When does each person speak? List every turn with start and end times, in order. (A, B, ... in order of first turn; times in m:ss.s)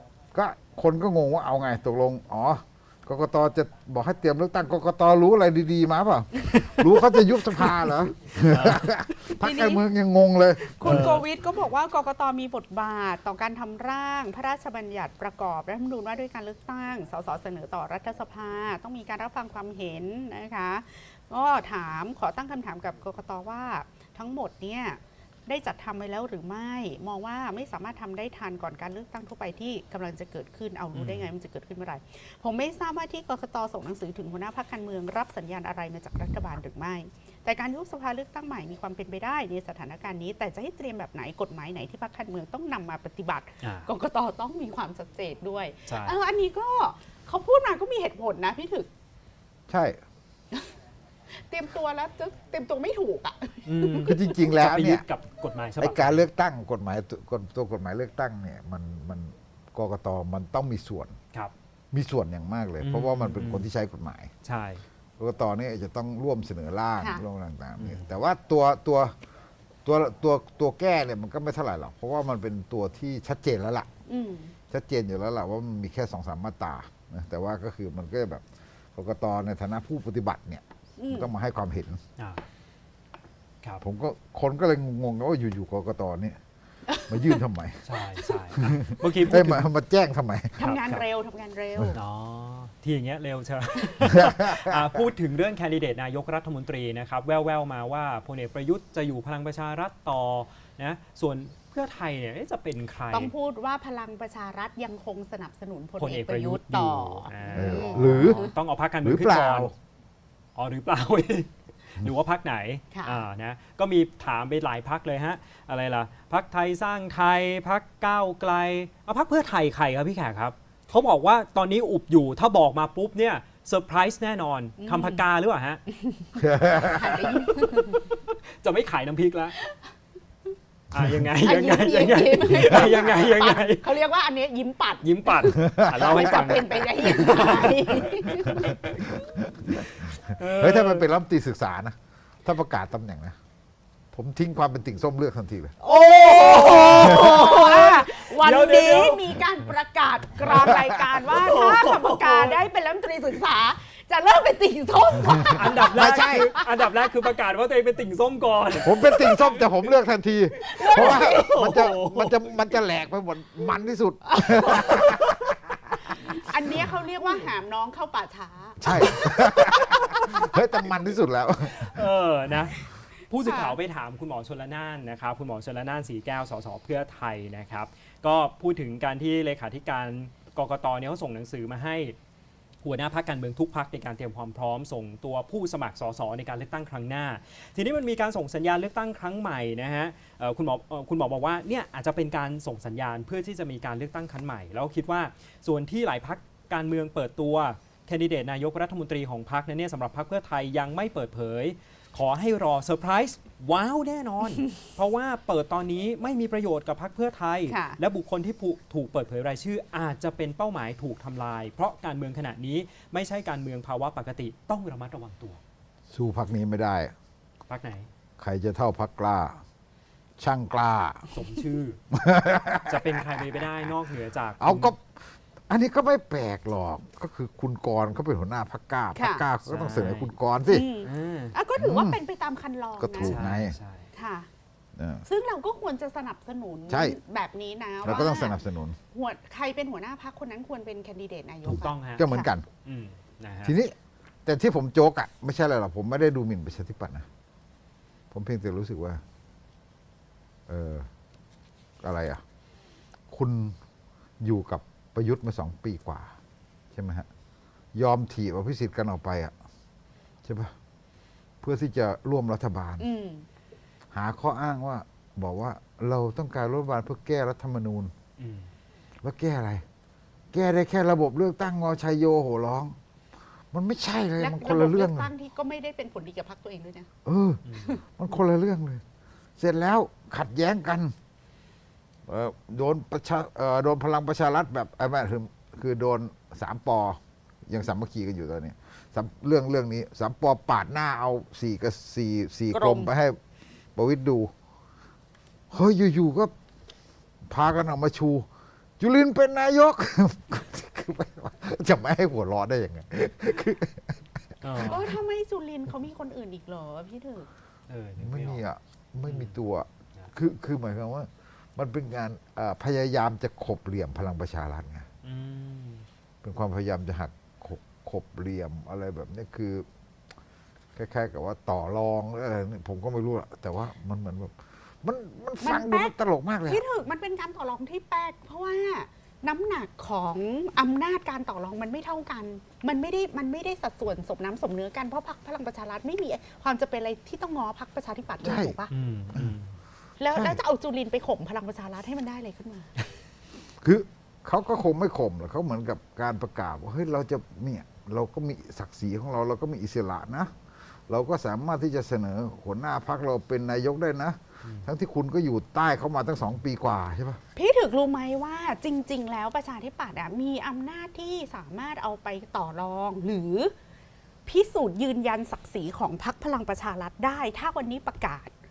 0:00.3-0:11.2 A
0:06.5-0:06.8 B
0:08.4-0:08.9 B
0:09.4-0:09.8 C
0:10.6-0:48.9 C
0:10.8-0:11.2 B
0:30.9-0:31.3 B
0:43.6-0:43.9 B
0:45.9-0:46.1 B
0:49.7-0:50.0 A
0:51.3-0:54.2 C
0:53.6-0:56.2 B
0:54.0-0:55.0 A
0:55.8-1:01.2 A
1:01.9-1:04.3 A
1:02.8-1:03.6 B
1:04.4-1:04.8 B
1:05.2-1:09.2 A
1:07.0-1:07.2 C
1:07.8-1:08.1 B
1:09.8-1:13.9 A
1:14.0-1:14.5 C
1:14.7-1:18.4 A
1:18.9-1:22.0 A
1:21.0-1:21.3 C
1:23.8-1:26.4 A
1:26.9-1:27.2 C
1:27.1-1:27.8 A
1:27.8-1:29.7 B
1:28.6-1:30.6 A
1:30.6-1:32.0 C
1:30.6-1:31.0 B
1:31.9-1:43.3 B
1:34.0-1:35.0 A
1:43.1-1:48.5 C
1:46.0-1:49.7 B
1:47.5-1:48.4 A
1:49.0-1:49.7 A
1:50.6-2:05.8 B
1:52.9-1:53.2 C
2:04.8-2:05.2 C
2:05.9-2:08.0 C
2:06.4-2:07.3 A
2:07.5-2:09.6 B
2:10.9-2:13.9 B
2:11.4-2:18.8 C
2:15.0-2:19.2 B
2:15.6-2:16.5 A
2:18.9-2:23.4 A
2:19.8-2:21.1 B
2:24.1-2:25.8 A
2:25.8-2:37.1 C
2:25.9-2:29.3 B
2:26.3-2:27.4 A
2:30.5-2:32.6 B
2:30.5-2:31.0 A
2:35.4-2:39.5 B
2:35.5-2:36.5 A
2:38.8-2:45.5 A
2:40.6-2:41.8 C
2:40.6-2:42.4 B
2:44.3-2:45.1 C
2:44.8-2:45.1 B
2:46.0-2:50.5 C
2:48.8-2:52.0 A
2:51.7-3:02.2 B
2:53.4-2:53.8 C
3:02.8-3:35.6 B
3:27.7-3:28.0 C
3:36.1-3:37.1 A
3:37.7-3:38.1 B
3:38.4-3:39.6 A
3:40.4-3:41.2 A
3:41.3-3:42.0 B
3:42.1-3:43.9 A
3:42.8-3:44.9 B
3:44.6-3:50.8 A
3:49.1-3:49.4 C
3:49.6-3:50.3 B
3:50.6-3:53.4 C
3:51.0-3:51.5 B
3:51.8-3:52.2 A
3:53.0-3:53.8 A
3:53.2-3:54.1 B
3:54.1-3:54.5 C
3:55.0-3:55.2 A
3:55.2-3:58.6 C
3:56.9-3:57.2 A
3:58.0-3:59.0 A
3:59.1-4:02.5 C
4:01.6-4:02.6 A
4:01.7-4:02.3 B
4:02.8-4:03.7 B
4:03.6-4:07.3 A
4:08.3-4:09.2 A
4:10.7-4:11.1 A
4:12.0-4:12.4 A
4:13.3-4:13.7 A
4:14.4-4:16.3 A
4:16.9-4:17.3 A
4:17.9-4:19.5 A
4:20.4-4:20.7 A
4:21.6-4:23.1 A
4:23.0-4:23.5 C
4:24.1-4:28.1 A
4:28.4-4:28.7 B
4:29.2-4:29.8 A
4:30.5-4:33.0 A
4:33.7-4:35.3 A
4:34.4-4:37.1 C
4:37.2-4:37.6 A
4:37.6-4:37.9 B
4:38.2-4:39.0 A
4:39.6-4:41.1 A
4:42.3-4:53.4 A
4:52.7-4:53.1 C
4:54.0-4:54.5 A
4:55.7-4:56.5 A
4:57.5-4:58.4 A
4:59.0-5:04.8 A
5:04.6-5:05.1 B
5:04.8-5:07.5 C
5:07.9-5:08.6 B
5:08.2-5:15.0 A
5:09.2-5:09.5 B
5:15.2-5:16.0 B
5:16.4-5:19.9 A
5:20.9-5:26.8 A
5:25.6-5:26.1 C
5:26.7-5:38.9 C
5:38.4-5:38.8 A
5:38.9-5:39.7 B
5:40.2-5:42.9 C
5:40.3-5:40.6 A
5:43.8-5:50.5 A
5:51.1-5:57.4 A
5:57.5-6:03.7 C
6:04.4-6:08.5 C